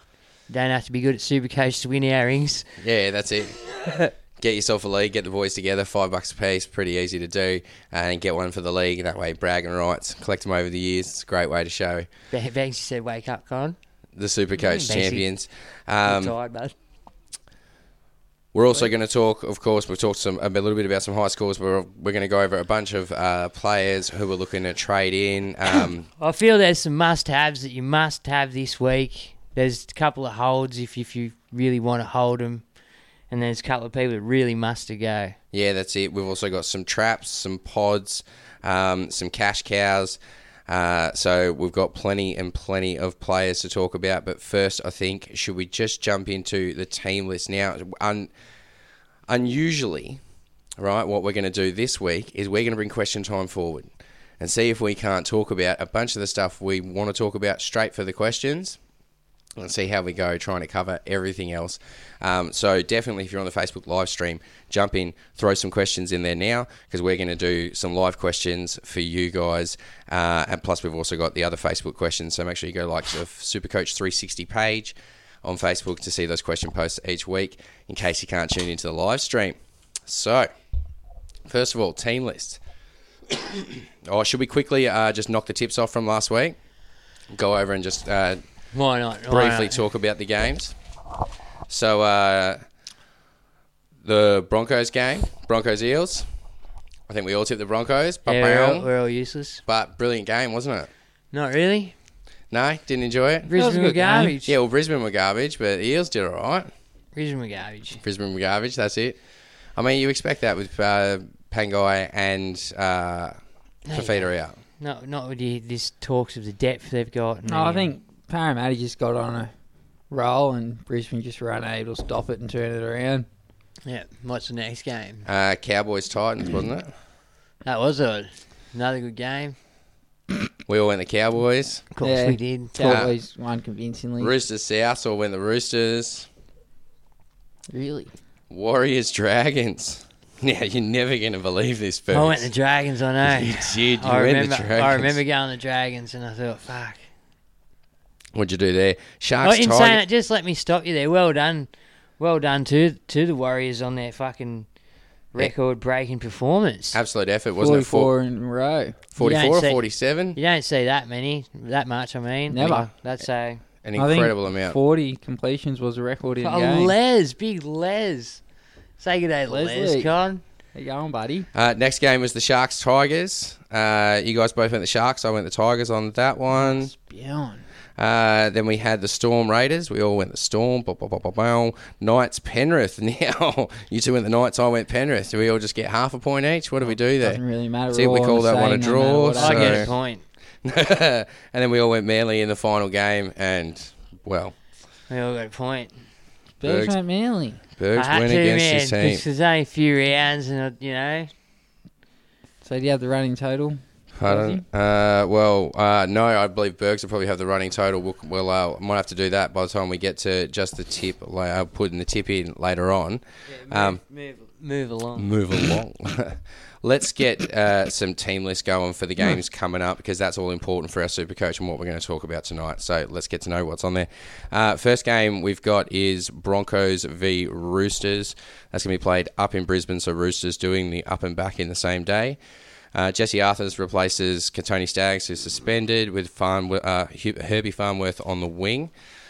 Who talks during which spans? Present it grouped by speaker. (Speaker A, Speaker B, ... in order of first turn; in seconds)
Speaker A: 0.5-2.7, 12.3-13.8, 14.6-15.3, 16.0-16.7, 26.2-32.6, 33.3-35.4, 88.7-89.8, 98.3-99.6, 101.3-101.9, 103.5-104.5, 107.2-108.0, 113.9-117.9, 123.9-125.3, 127.6-129.6, 131.9-133.0, 142.1-147.0, 149.4-154.7, 155.3-157.0, 159.2-163.6, 166.4-168.4, 169.0-170.4, 189.4-190.2, 195.1-195.9, 198.0-201.3, 213.6-215.3
Speaker B: 2.8-3.6, 4.4-12.1, 14.2-16.4, 18.5-26.1, 35.5-48.3, 49.3-50.2, 50.8-58.8, 59.6-80.5, 81.5-82.6, 83.3-86.6, 87.3-88.4, 89.3-90.8, 91.7-92.6, 94.0-96.3, 97.1-98.9, 99.7-100.9, 102.5-103.5, 104.5-106.7, 108.0-109.2, 109.8-113.4, 113.9-114.6, 125.2-126.9, 130.7-131.8, 132.8-133.1, 134.2-136.3, 138.5-142.5, 143.2-145.2, 148.3-150.0, 156.9-158.1, 159.2-160.4, 163.8-164.8, 171.5-176.9, 178.0-189.9, 190.6-194.6, 196.6-197.0, 197.8-199.2, 204.2-214.0, 215.2-232.4, 232.9-238.9
Speaker C: 103.5-104.3, 117.5-119.5, 120.1-123.3, 132.0-134.3, 137.7-138.1, 157.6-159.0, 162.5-162.9, 164.0-166.9, 169.5-170.1, 170.8-171.5, 176.5-177.6, 186.9-189.9, 196.6-197.6, 202.6-204.6